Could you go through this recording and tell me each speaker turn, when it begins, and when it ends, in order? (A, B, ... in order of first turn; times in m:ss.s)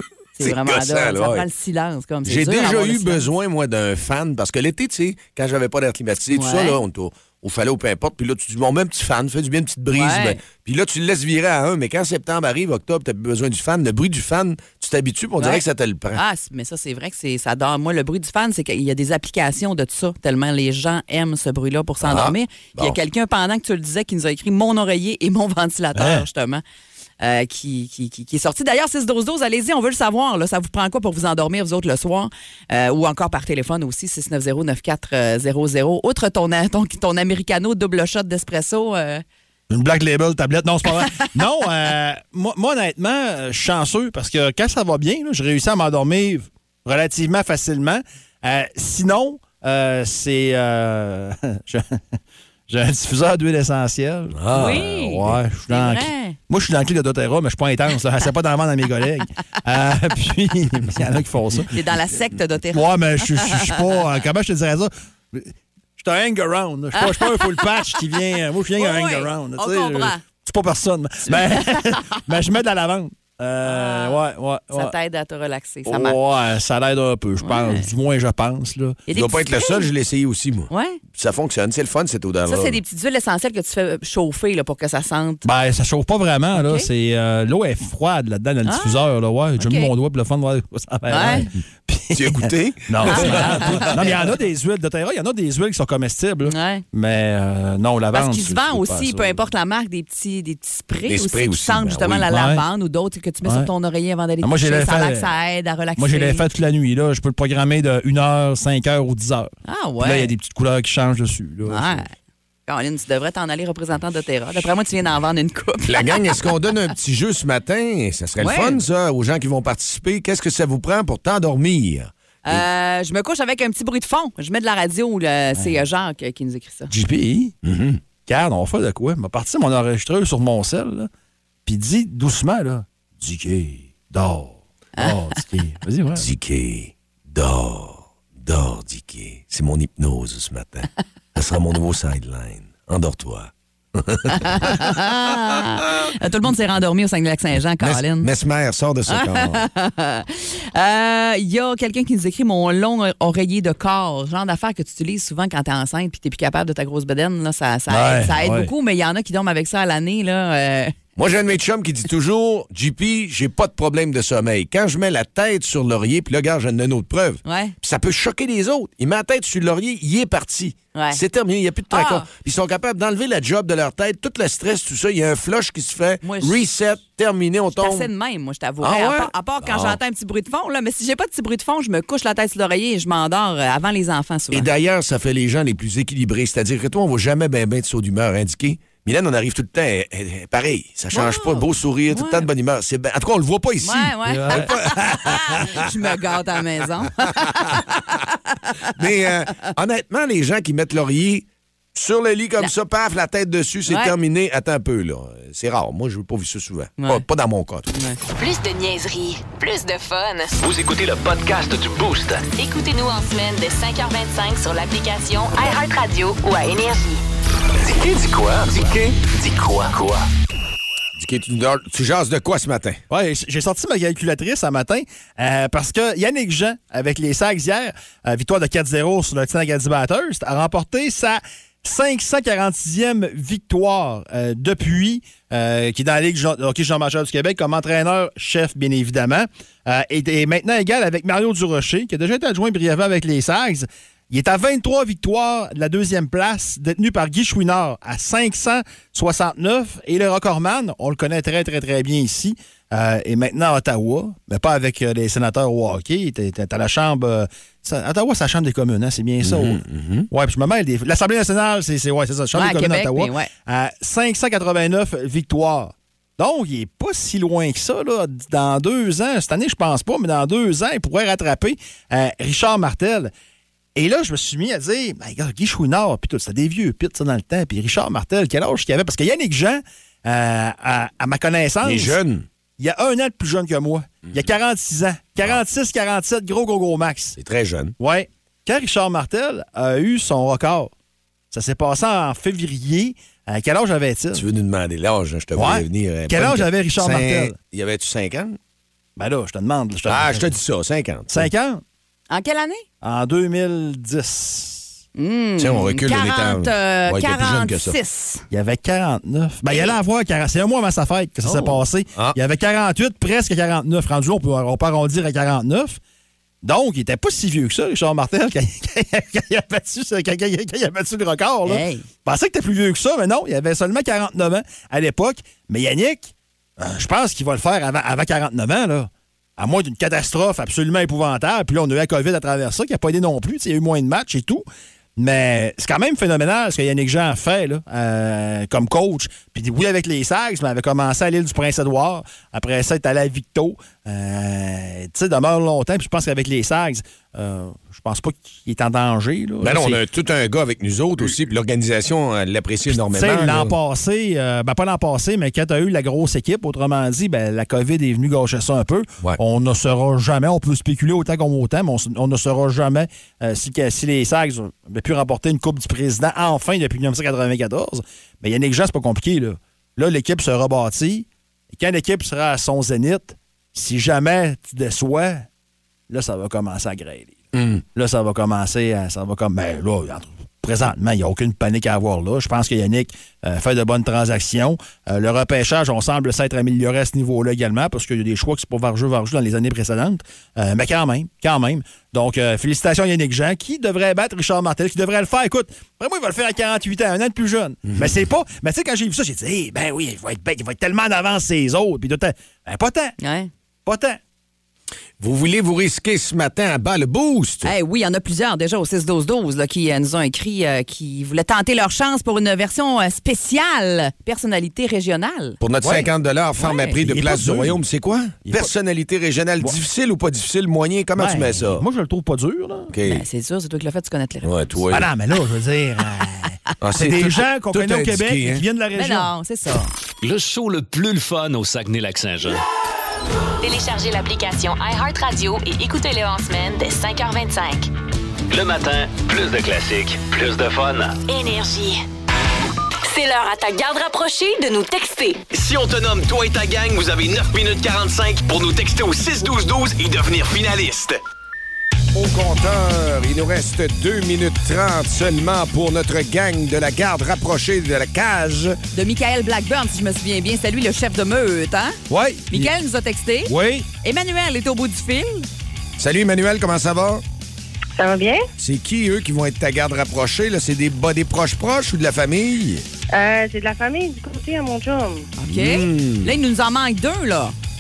0:00.4-0:03.2 A
0:00.4-0:01.5 B
0:02.2-0:16.2 B
0:06.3-0:06.8 A
0:09.9-0:10.4 A
0:15.4-0:15.6 A
0:16.1-0:26.6 A
0:22.0-0:23.0 B
0:25.9-0:26.2 C
0:27.2-0:39.2 A
0:39.7-0:52.2 C
0:40.9-0:41.3 A
0:52.7-1:01.8 C
0:54.3-0:55.4 B
0:54.5-0:56.4 A
1:01.7-1:04.0 A
1:02.7-1:14.9 C
1:06.9-1:08.0 A
1:08.8-1:10.2 A
1:11.2-1:12.2 A
1:13.6-1:14.2 A
1:14.7-1:16.2 A
1:15.8-1:19.0 C
1:17.4-1:17.9 A
1:19.1-1:19.9 A
1:19.1-1:22.8 B
1:20.7-1:21.0 A
1:22.4-1:25.4 A
1:25.4-1:39.4 C
1:26.5-1:26.9 A
1:28.6-1:29.0 A
1:29.6-1:29.9 A
1:31.1-1:31.5 A
1:32.1-1:34.1 B
1:33.0-1:34.0 A
1:36.4-1:36.8 A
1:38.1-1:46.4 A
1:41.0-1:42.3 B
1:42.3-1:42.6 C
1:43.4-1:43.7 C
1:44.4-1:45.3 C
1:46.0-1:52.0 C
1:49.6-1:50.3 A
1:51.7-1:52.1 A
1:52.7-1:56.2 A
1:55.8-2:02.6 B
1:58.4-1:58.8 A
2:02.4-2:06.9 A
2:05.5-2:05.8 C
2:06.9-2:07.5 C
2:07.6-2:08.0 B
2:08.2-2:11.1 C
2:11.6-2:16.3 C
2:16.2-2:25.0 B
2:24.3-2:28.3 A
2:27.8-2:29.6 B
2:29.1-2:40.9 A
2:37.9-2:38.7 C
2:41.2-2:58.1 B
2:47.4-2:47.7 A
2:50.9-2:51.2 A
2:51.9-2:52.3 A
2:56.2-2:56.6 A
2:57.8-3:04.7 A
2:58.8-3:00.0 B
3:04.5-3:15.9 B
3:11.1-3:12.5 A
3:13.8-3:18.9 A
3:14.3-3:14.8 C
3:17.4-3:17.8 B
3:18.9-3:27.9 B
3:23.9-3:24.1 A
3:27.0-3:27.2 A
3:27.9-3:28.2 A
3:28.4-3:30.6 D
3:30.6-3:32.4 E
3:32.5-3:37.2 D
3:37.8-3:40.2 E
3:41.2-3:43.0 B
3:43.1-4:33.3 C
4:19.4-4:20.3 B
4:22.5-4:23.5 A
4:34.0-4:42.2 C
4:41.8-4:42.4 B
4:42.8-4:47.4 C
4:47.4-4:47.9 B
4:48.0-4:50.9 C
4:51.5-4:54.4 C
4:54.3-4:58.6 B
4:55.5-4:57.6 C
4:59.2-5:00.5 C
5:00.1-5:01.5 B
5:01.3-5:01.8 C
5:02.3-5:02.8 A
5:03.0-5:04.9 C
5:05.2-5:08.4 A
5:05.6-5:07.9 B
5:08.5-5:16.0 C
5:11.4-5:11.8 A
5:16.6-5:34.6 C
5:21.6-5:22.0 A
5:35.2-5:50.0 C
5:49.6-5:53.7 B
5:52.9-6:15.5 C
6:16.1-6:43.2 C
6:17.5-6:17.8 B
6:43.2-6:43.5 A
6:43.8-6:44.2 C
6:45.2-6:47.7 B
6:47.6-6:55.6 A
6:55.6-7:01.8 B
6:55.8-6:56.1 C
6:56.6-6:57.0 A
6:57.0-6:57.8 C
6:58.4-6:58.7 C
7:01.1-7:02.9 C
7:02.9-7:03.2 B
7:03.0-7:04.8 A
7:04.4-7:05.1 B
7:04.9-7:09.3 C
7:06.8-7:08.6 B
7:08.9-7:09.9 A
7:10.2-7:12.6 E
7:13.6-7:17.9 D
7:18.5-7:21.2 E
7:21.3-7:22.0 D
7:23.0-7:25.4 D
7:25.5-7:31.2 F
7:32.1-7:38.8 B
7:38.9-7:42.0 A
7:42.1-7:42.7 C
7:42.5-7:45.5 A
7:43.4-7:43.9 C
7:46.0-7:47.2 B
7:48.0-7:48.4 G
7:48.6-7:52.8 B
7:53.1-7:55.2 G
7:55.4-7:57.5 A
7:55.5-7:56.3 B